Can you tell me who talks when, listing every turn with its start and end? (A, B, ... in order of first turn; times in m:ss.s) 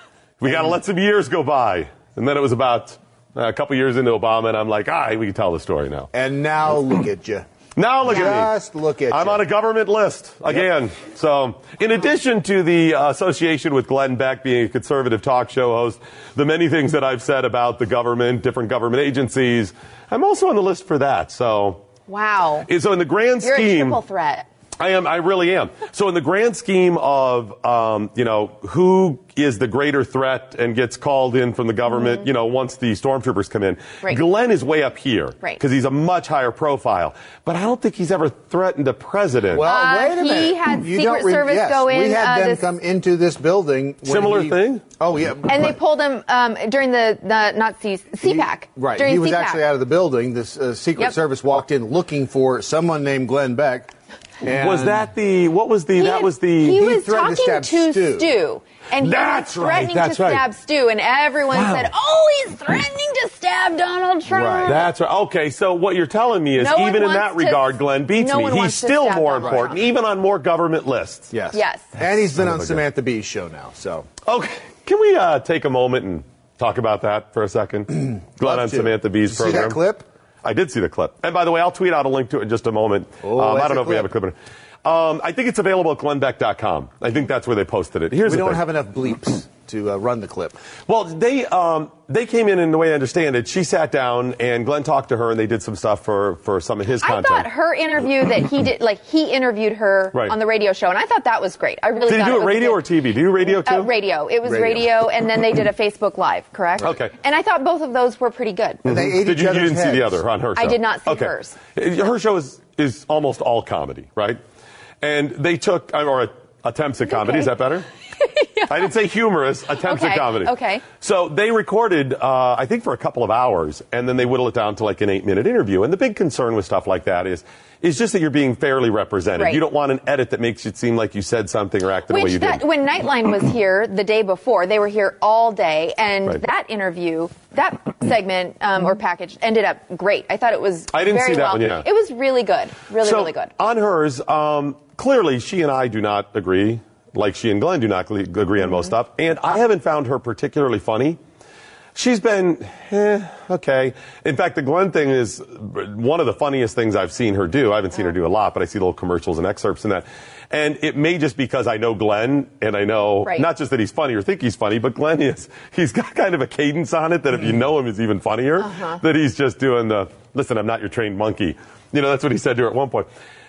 0:00.4-0:06.1 A
0:06.1-0:07.4 B
0:07.8-0:08.5 A
0:08.0-0:09.4 B
0:09.1-0:21.8 A
0:22.1-0:22.7 C
0:22.7-0:24.0 A
0:23.4-0:24.4 C
0:24.8-0:39.6 A
0:32.0-0:32.2 C
0:39.5-0:45.8 B
0:39.6-0:42.6 C
0:44.0-0:44.8 A
0:45.5-0:49.6 C
0:48.2-0:53.9 B
0:54.4-0:55.1 B
0:54.5-0:56.8 A
0:56.0-1:04.8 C
0:56.6-0:58.3 B
0:59.0-1:00.4 A
1:01.5-1:01.9 A
1:04.3-1:04.8 B
1:04.6-1:11.3 A
1:06.6-1:09.8 C
1:09.4-1:09.7 B
1:11.3-1:14.1 B
1:11.5-1:11.9 C
1:12.4-1:12.8 A
1:14.2-1:19.8 A
1:18.4-1:20.0 B
1:20.4-1:28.6 A
1:23.2-1:24.1 B
1:28.2-1:30.6 B
1:30.9-1:37.5 A
1:37.0-1:42.8 C
1:42.1-1:43.9 A
1:43.4-1:48.8 C
1:44.4-1:44.9 B
1:46.8-1:47.1 A
1:48.8-1:50.2 B
1:48.8-1:54.4 A
1:50.6-1:51.6 C
1:55.0-1:57.8 A
1:57.1-1:57.5 C
1:58.2-1:58.9 C
1:58.7-2:12.6 A
1:59.8-2:00.8 C
2:09.4-2:09.6 C
2:12.1-2:23.5 C
2:20.9-2:21.8 A
2:23.0-2:31.2 A
2:31.9-2:53.1 A
2:48.6-2:49.0 C